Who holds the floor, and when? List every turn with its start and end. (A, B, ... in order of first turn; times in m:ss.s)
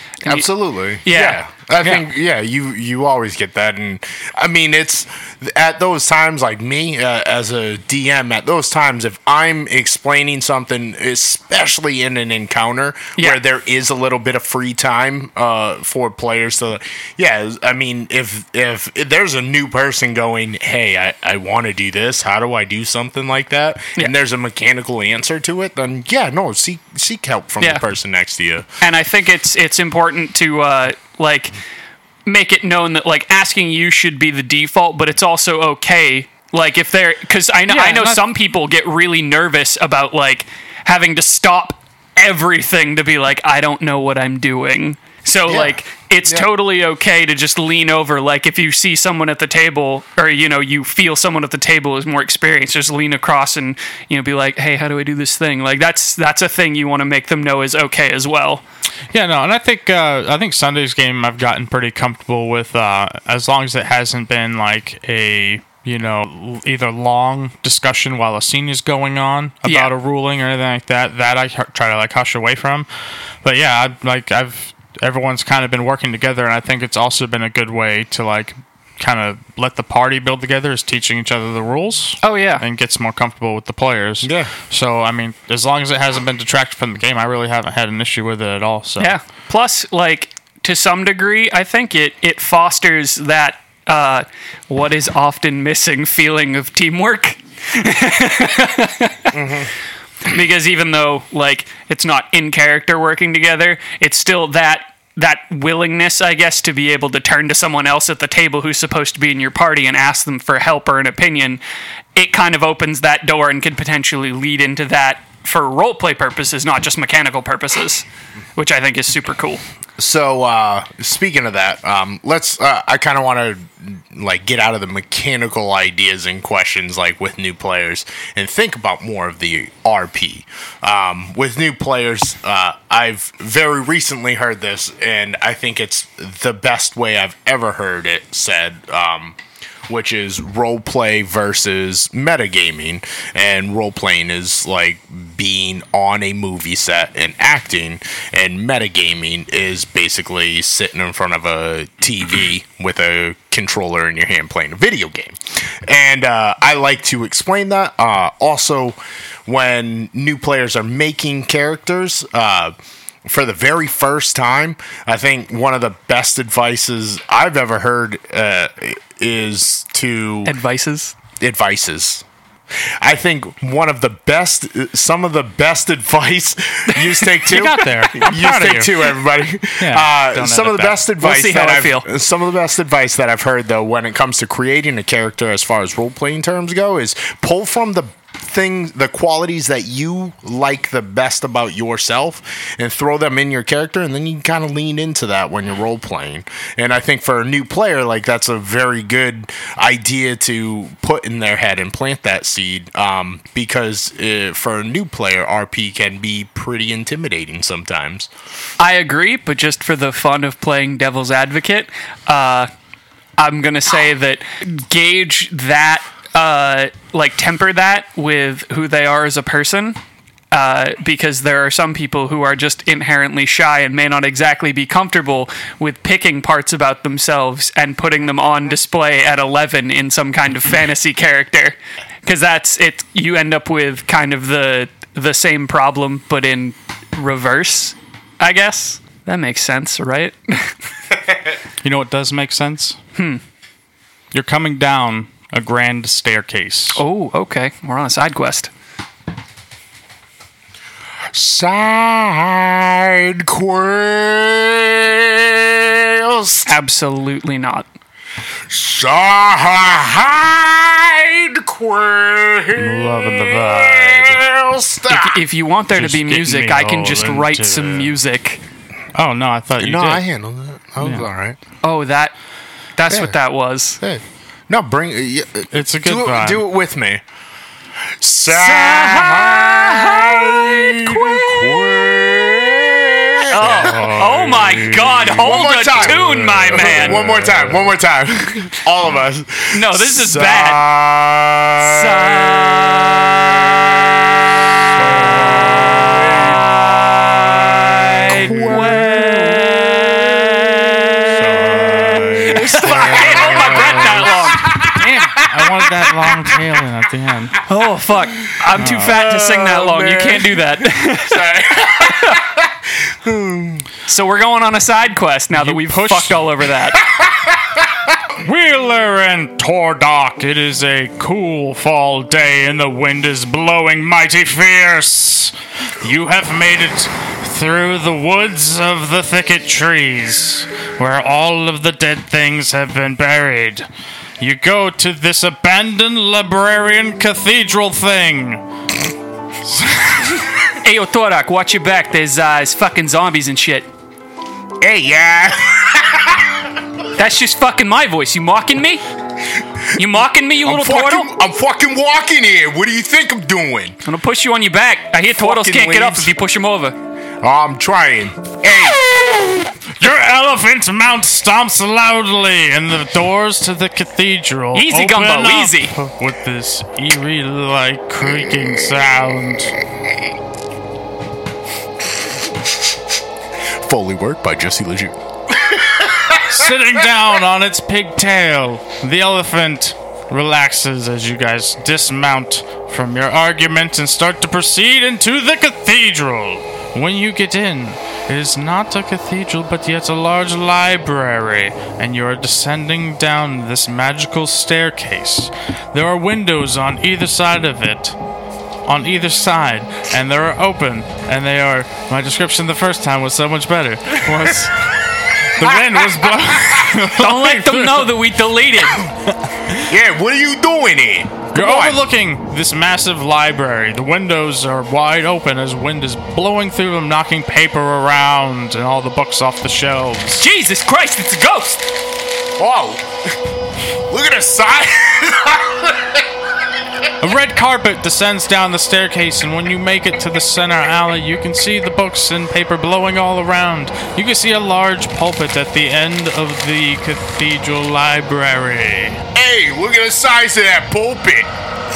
0:00.2-0:00.5 A
0:00.2-0:28.7 B
0:01.0-0:01.4 A
0:28.8-0:31.6 A
0:32.3-0:58.6 A
0:37.7-0:38.2 C
0:45.5-0:46.5 B
0:59.1-1:12.9 C
1:09.7-1:09.9 A
1:13.4-1:29.2 C
1:22.2-1:22.6 A
1:24.2-1:24.5 B
1:29.0-1:39.4 A
1:39.3-1:39.7 B
1:40.2-1:51.6 A
1:52.2-1:58.0 A
1:58.6-1:59.6 A
2:00.0-2:19.4 B
2:19.9-2:42.7 B
2:43.2-2:50.6 B
2:50.4-2:51.1 A
2:51.4-2:52.2 B
2:52.8-3:28.3 B
2:57.0-2:57.2 A
2:57.5-2:59.1 C
2:59.8-3:01.0 C
3:01.2-3:02.1 A
3:28.8-3:32.7 A
3:33.4-3:40.0 A
3:40.5-4:00.8 A
4:01.8-4:03.0 C
4:03.2-4:03.4 A
4:04.3-4:07.0 C
4:07.0-4:08.7 A
4:11.3-4:16.7 B
4:16.7-4:17.9 A
4:18.7-4:25.4 B
4:22.8-4:24.4 C
4:25.1-4:28.6 A
4:25.9-4:28.2 C
4:29.2-4:30.2 C
4:29.8-4:31.6 B
4:31.8-4:32.4 A
4:33.0-4:34.0 A
4:33.1-4:33.4 B
4:34.0-4:37.2 B
4:35.7-4:36.6 C
4:38.2-4:44.3 B
4:38.5-4:42.1 A
4:43.5-4:47.3 A
4:43.6-4:45.3 C
4:45.3-4:54.2 B
4:46.2-4:47.8 C
4:49.7-4:50.8 A
4:51.8-4:53.3 A
4:55.0-4:57.0 B
4:55.0-4:55.9 C
4:57.8-4:59.7 A
4:58.3-5:06.6 B
5:01.3-5:07.6 C
5:02.4-5:04.7 A
5:07.7-5:12.4 A
5:08.7-5:13.9 B
5:08.8-5:09.2 C
5:14.1-5:17.0 A
5:15.5-5:16.4 C
5:17.0-5:18.1 B
5:18.4-5:33.9 C
5:34.4-5:38.6 C
5:39.8-5:40.3 C
5:40.8-5:43.9 A
5:44.8-5:46.7 B
5:47.2-5:49.0 A
5:49.9-5:51.3 A
5:50.6-5:54.0 B
5:54.0-5:57.0 A
5:55.4-5:56.3 B
5:57.4-5:59.0 B
6:00.0-6:09.8 C
6:04.7-6:06.0 A
6:13.8-6:16.5 B
6:16.3-6:38.2 C
6:38.9-6:48.1 C
6:45.6-6:46.9 B
6:47.1-6:49.0 A
6:49.3-6:49.8 C
6:49.9-6:52.0 B
6:51.5-7:00.4 C
7:00.4-7:01.8 A
7:02.6-7:03.1 B
7:04.1-7:06.3 B
7:07.2-7:19.2 C
7:19.3-7:21.5 B